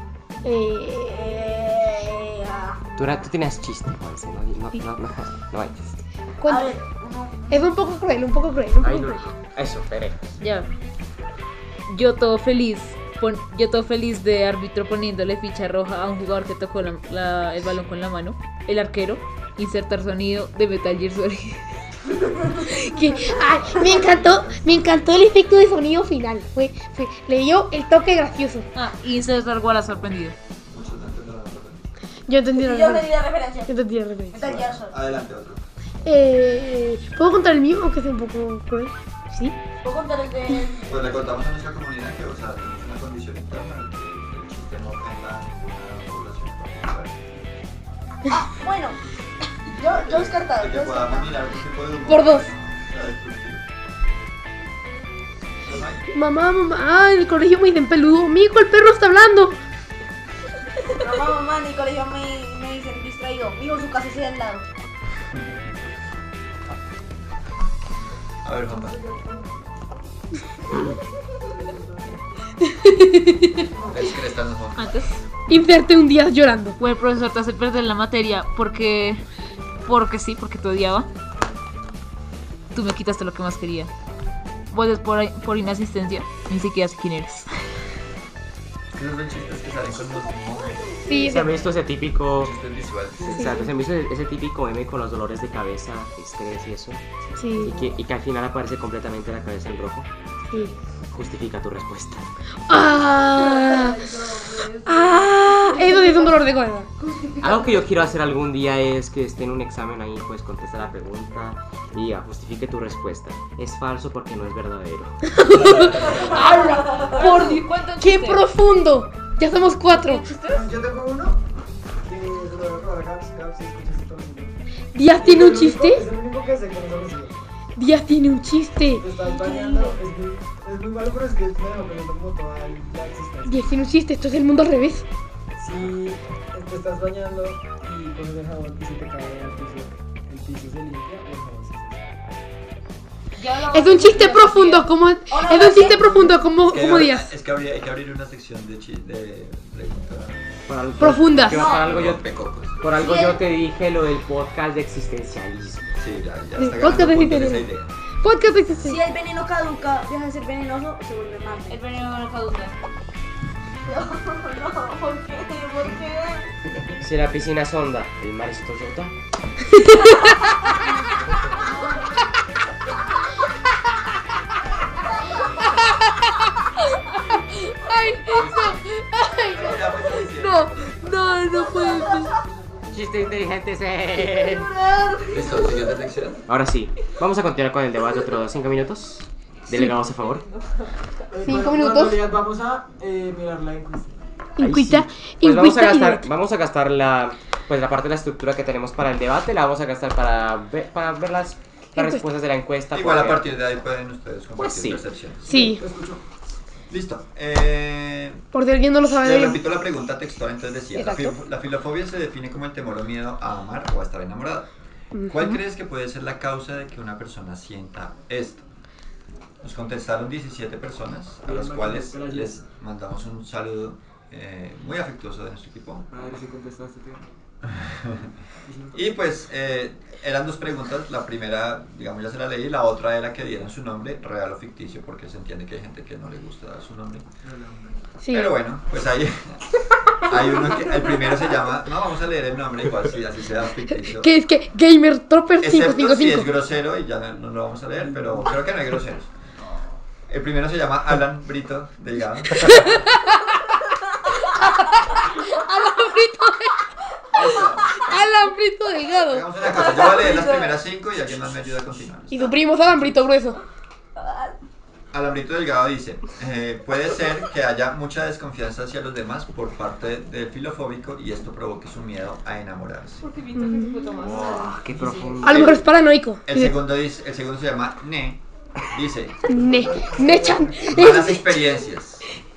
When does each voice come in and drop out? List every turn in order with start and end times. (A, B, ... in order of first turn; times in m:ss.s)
0:00.4-0:01.4 A
0:01.0-0:02.9 B
0:03.0-0:06.0 C
0:06.4-0:06.8 A
0:06.4-0:07.7 B
0:07.5-0:09.2 A
0:08.8-0:10.4 C
0:10.4-0:10.7 D
0:11.9-0:21.8 D
0:22.7-0:28.7 A
0:23.3-0:25.1 E
0:28.7-0:30.4 D
0:30.7-0:31.8 E
0:32.3-0:33.1 A
0:32.6-0:33.7 B
0:33.7-0:34.5 A
0:34.3-0:34.9 B
0:34.4-0:35.6 E
0:36.0-0:39.6 A
0:39.8-0:41.3 B
0:40.9-0:47.2 E
0:48.3-0:49.0 B
0:49.7-0:51.4 B
0:49.7-0:53.6 E
0:52.1-0:52.5 A
0:55.6-0:56.0 E
0:56.1-0:59.6 A
1:00.9-1:04.6 B
1:05.2-1:05.6 E
1:08.4-1:09.0 E
1:08.7-1:09.5 F
1:10.6-1:12.2 F
1:12.6-1:13.6 A
1:13.6-1:14.1 F
1:13.9-1:15.1 E
1:14.8-1:15.2 D
1:15.5-1:16.8 A
1:16.8-1:19.2 D
1:19.8-1:21.1 D
1:22.7-1:23.9 D
1:24.7-1:27.5 D
1:28.9-1:30.9 E
1:30.8-1:31.2 B
1:31.0-1:31.6 A
1:31.1-1:32.5 C
1:32.4-1:33.4 E
1:33.2-1:33.4 F
1:33.2-1:37.0 C
1:33.3-1:33.7 A
1:37.3-1:37.8 F
1:37.4-1:37.8 A
1:37.6-1:40.1 C
1:40.5-1:40.7 A
1:41.1-1:42.8 C
1:42.7-1:44.1 A
1:43.4-1:45.1 B
1:44.8-1:46.9 A
1:45.6-1:46.4 B
1:47.0-1:47.8 B
1:47.4-1:55.2 C
1:55.3-2:00.3 A
1:55.4-1:56.6 E
1:56.9-1:58.4 D
1:59.9-2:00.7 D
2:00.4-2:01.4 F
2:02.0-2:04.6 F
2:04.9-2:06.0 A
2:05.1-2:07.4 F
2:07.8-2:09.1 A
2:08.9-2:13.6 F
2:09.3-2:10.0 B
2:13.4-2:15.1 A
2:15.6-2:22.3 F
2:23.4-2:24.9 D
2:23.7-2:27.3 A
2:25.3-2:26.4 B
2:26.6-2:30.4 E
2:30.7-2:32.2 C
2:31.0-2:31.8 A
2:31.7-2:32.8 E
2:32.8-2:36.0 C
2:32.9-2:33.4 B
2:36.0-2:37.9 E
2:36.6-2:37.6 A
2:38.2-2:39.0 A
2:38.8-2:41.8 B
2:41.7-2:42.7 D
2:43.9-2:46.4 B
2:47.0-2:49.1 C
2:49.8-2:50.1 A
2:57.3-3:02.4 A
2:58.3-2:58.8 E
2:59.4-3:01.4 E
3:01.7-3:02.3 B
3:02.9-3:04.7 C
3:04.2-3:06.0 B
3:05.3-3:06.4 E
3:06.5-3:10.4 C
3:10.0-3:11.3 D
3:11.3-3:14.2 F
3:11.4-3:12.2 A
3:14.6-3:16.2 A
3:14.6-3:23.5 C
3:22.0-3:22.2 A
3:22.9-3:25.7 E
3:24.6-3:25.0 C
3:25.4-3:25.8 A
3:25.5-3:26.2 F
3:26.9-3:28.4 E
3:28.5-3:29.6 A
3:29.2-3:34.7 E
3:31.0-3:31.4 A
3:35.1-3:35.6 A
3:35.3-3:38.7 E
3:39.6-3:46.1 E
3:41.4-3:42.6 F
3:46.1-3:47.3 F
3:47.6-3:48.3 E
3:48.6-3:49.0 F
3:48.9-3:57.2 E
3:57.4-3:58.1 F
3:58.2-3:58.6 A
3:58.3-4:04.3 E
4:04.1-4:06.5 A
4:05.6-4:09.3 E
4:08.0-4:08.7 F
4:10.3-4:13.0 E
4:12.6-4:13.6 A
4:14.4-4:16.8 A
4:17.3-4:18.0 E
4:17.5-4:19.5 A
4:19.3-4:22.4 E
4:19.6-4:20.8 B
4:22.3-4:23.6 A
4:24.2-4:24.6 B
4:25.1-4:33.2 E
4:33.2-4:34.8 D
4:33.6-4:34.1 A
4:34.1-4:35.8 C
4:34.8-4:35.6 F
4:35.4-4:36.8 A
4:35.5-4:35.8 E
4:36.4-4:39.4 E
4:39.5-4:41.6 A
4:39.5-4:41.0 F
4:40.9-4:42.3 E